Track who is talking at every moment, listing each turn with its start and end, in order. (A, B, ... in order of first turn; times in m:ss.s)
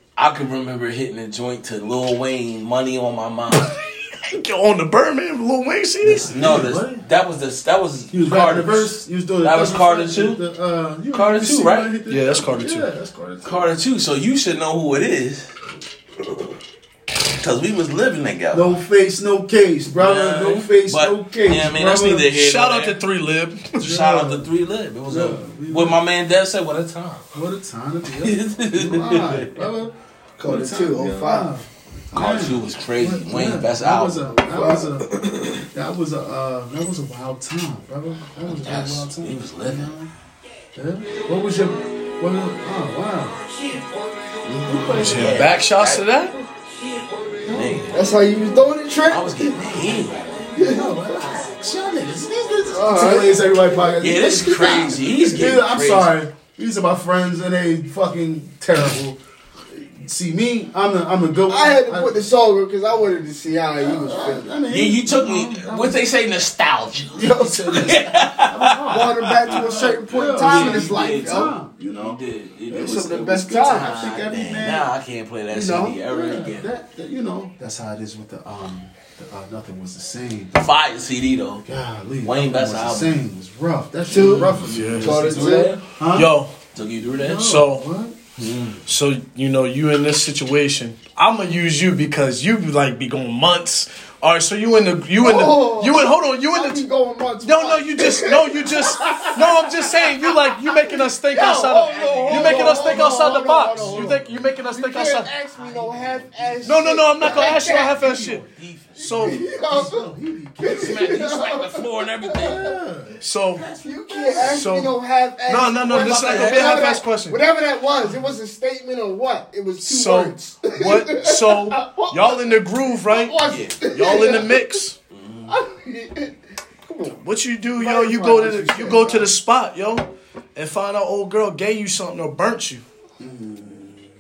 0:00.2-0:03.8 A
0:03.5-0:06.4 B
0:06.0-0:10.4 A
0:06.1-0:07.0 C
0:08.1-0:13.7 C
0:11.1-0:11.9 A
0:12.1-0:12.9 B
0:13.4-0:15.5 A
0:17.3-0:18.8 A
0:18.5-0:22.3 C
0:20.0-0:23.0 A
0:22.3-0:23.8 B
0:23.8-0:24.5 C
0:23.8-0:27.3 A
0:25.1-0:26.0 C
0:27.3-0:35.2 C
0:28.2-0:29.7 A
0:30.4-0:31.5 D
0:32.1-0:34.3 A
0:34.4-0:35.6 D
0:35.7-0:40.1 C
0:38.4-0:39.9 A
0:40.8-0:43.4 C
0:44.4-0:46.3 A
0:44.6-0:45.4 C
0:45.0-0:46.4 B
0:47.4-0:47.9 C
0:47.5-0:48.2 A
0:47.9-0:49.8 D
0:49.1-0:50.5 A
0:50.5-0:59.2 C
0:50.6-0:50.9 D
0:52.7-0:53.5 D
0:54.0-0:56.1 A
0:59.7-1:02.2 C
1:01.5-1:04.5 D
1:03.8-1:06.0 C
1:04.7-1:16.7 A
1:07.1-1:14.9 C
1:07.3-1:07.5 D
1:08.9-1:11.6 D
1:12.7-1:14.0 D
1:15.5-1:16.0 D
1:15.7-1:20.6 C
1:20.5-1:21.6 A
1:21.6-1:26.3 C
1:22.2-1:23.2 A
1:24.1-1:25.8 D
1:24.1-1:25.8 A
1:24.7-1:25.2 B
1:26.1-1:26.6 B
1:26.7-1:27.5 A
1:27.1-1:28.3 C
1:27.4-1:27.9 B
1:28.4-1:28.8 A
1:28.9-1:36.8 B
1:35.2-1:48.0 D
1:37.4-1:45.3 B
1:41.8-1:42.9 A
1:42.3-1:44.6 C
1:45.5-1:47.0 C
1:46.6-1:49.5 B
1:47.4-1:49.1 A
1:49.0-1:52.7 D
1:49.3-1:51.2 C
1:50.6-1:52.7 A
1:52.4-1:54.6 C
1:53.2-1:53.7 B
1:53.8-2:04.8 D
1:54.4-1:55.0 B
1:55.5-1:57.4 B
1:55.9-1:56.9 A
1:59.8-2:05.0 B
2:03.5-2:03.8 A
2:05.1-2:05.5 A
2:05.5-2:07.2 D
2:07.2-2:12.8 B
2:07.8-2:09.3 D
2:13.2-2:14.1 C